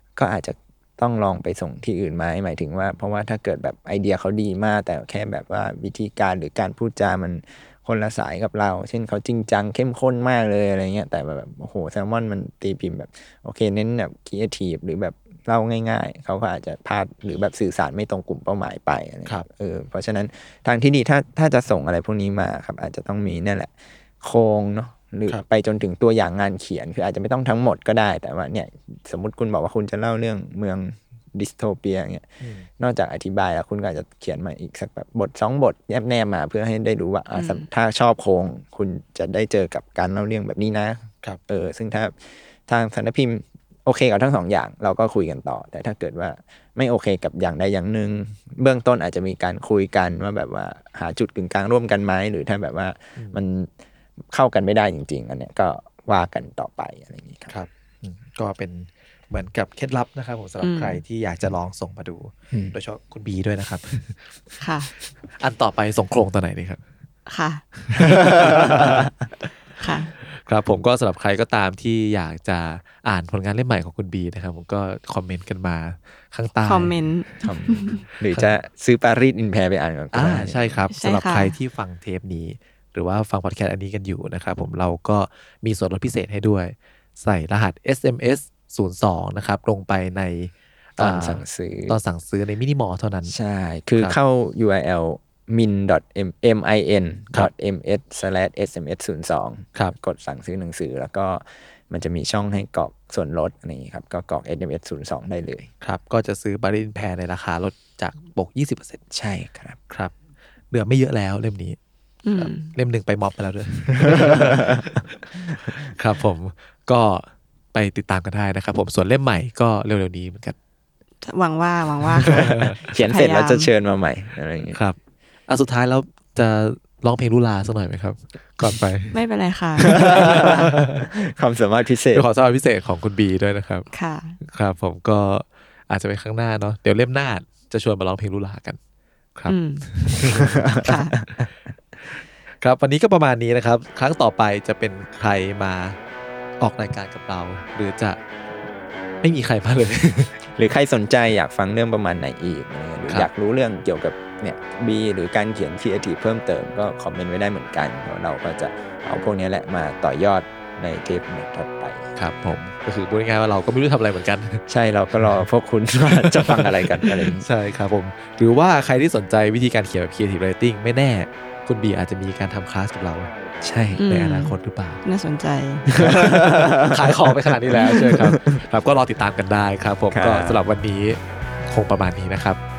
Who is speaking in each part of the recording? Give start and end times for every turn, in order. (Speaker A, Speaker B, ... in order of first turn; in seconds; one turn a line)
Speaker A: 0.2-32.3
Speaker B: 32.4-32.7
Speaker A: 32.8-53.7
Speaker C: 37.3-37.7
Speaker A: 54.3-57.5
Speaker B: 57.5-64.5
Speaker C: 60.6-61.0
Speaker C: 64.6-64.9
Speaker B: 65.4-66.8
Speaker C: 67.3-67.6
Speaker B: 67.8-69.1
Speaker A: 68.0-69.1
Speaker C: 69.8-70.1
Speaker B: 70.3-77.0
Speaker C: 76.6-78.0
Speaker A: 77.4-80.8
Speaker B: 80.1-93.3
Speaker C: 80.9-81.5
Speaker A: 91.0-92.0
Speaker A: 93.3-105.7
Speaker B: 105.8-109.0
Speaker A: 109.1-109.8
Speaker B: 110.7-111.8
Speaker C: 112.2-112.7
Speaker B: 112.4-120.6
Speaker A: 114.1-114.8
Speaker C: 121.2-123.7
Speaker B: 122.2-122.8
Speaker A: 122.6-124.8
Speaker B: 125.5-129.2
Speaker C: 129.1-130.6
Speaker B: 129.8-131.1
Speaker A: 129.9-132.3
Speaker B: 132.1-133.9
Speaker C: 133.9-134.4
Speaker B: 134.4-138.8
Speaker B: 139.4-140.7
Speaker C: 139.5-139.8
Speaker A: 140.3-141.4
Speaker C: 140.7-141.2
Speaker B: 142.1-146.0
Speaker B: 146.6-148.2
Speaker B: 149.2-150.4
Speaker A: 150.5-162.1
Speaker B: 162.2-164.6
Speaker A: 164.7-167.5
Speaker B: 165.2-165.4
Speaker B: 166.1-173.3
Speaker A: 173.6-174.1
Speaker C: 174.0-174.5
Speaker B: 174.1-175.0
Speaker C: 175.1-175.8
Speaker B: 175.9-182.6
Speaker A: 176.0-177.3
Speaker A: 178.1-178.6
Speaker A: 180.1-180.6